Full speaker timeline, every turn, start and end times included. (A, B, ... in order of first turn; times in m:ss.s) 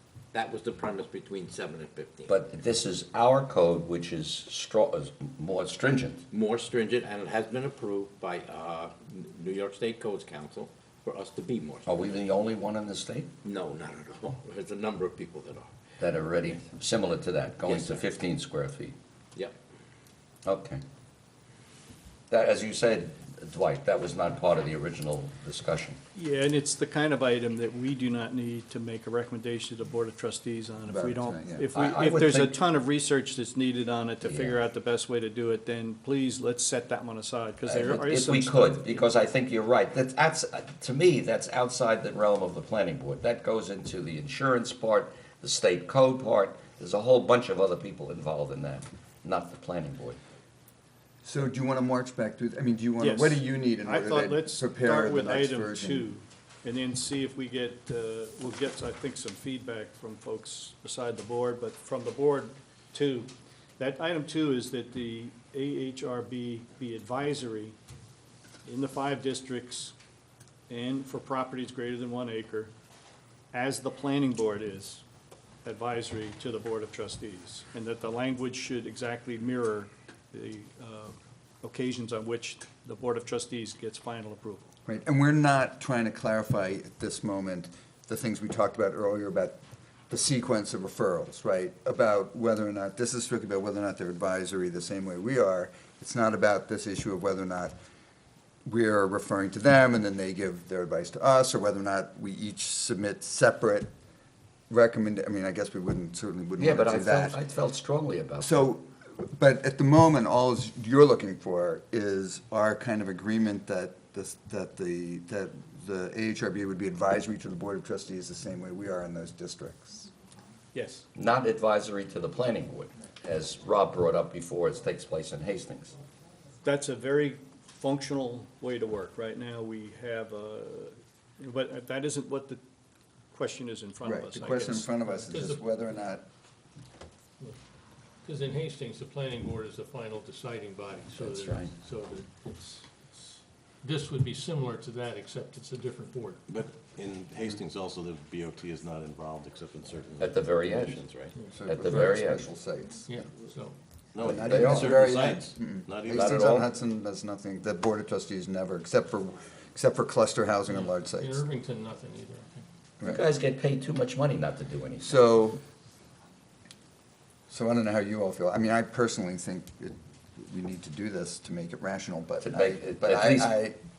0:00.3-0:02.3 A
0:02.3-0:06.2 B
0:06.3-0:12.1 A
0:11.8-0:13.3 B
0:13.4-0:15.7 A
0:16.0-0:19.0 B
0:17.6-0:18.0 A
0:20.4-0:20.8 B
0:22.3-0:26.0 B
0:26.1-0:39.0 C
0:30.9-0:31.7 D
0:31.7-0:32.6 B
0:34.2-0:34.6 B
0:37.6-0:50.2 B
0:51.2-0:56.1 D
0:53.0-1:07.8 C
1:08.6-1:09.9 C
1:10.7-1:12.7 C
1:13.5-1:15.0 C
1:15.6-1:24.7 C
1:24.8-1:29.6 D
1:30.1-1:37.7 D
1:38.6-1:43.9 D
1:44.7-1:47.4 D
1:46.6-1:48.7 B
1:48.4-2:00.1 D
2:00.7-2:01.0 C
2:01.1-2:05.9 B
2:06.6-2:12.6 C
2:13.3-2:14.9 C
2:14.0-2:16.2 D
2:15.2-2:16.1 E
2:18.2-2:26.4 E
2:21.1-2:21.7 B
2:26.5-2:31.3 F
2:30.2-2:31.0 B
2:31.3-2:32.1 E
2:31.5-2:33.2 D
2:31.6-2:32.4 B
2:33.0-2:33.8 E
2:34.1-2:36.5 F
2:34.2-2:41.4 D
2:34.4-2:35.3 B
2:36.1-2:36.7 B
2:40.7-2:42.6 E
2:43.0-2:45.2 B
2:45.0-2:45.6 D
2:47.5-2:53.8 D
2:52.4-2:53.6 B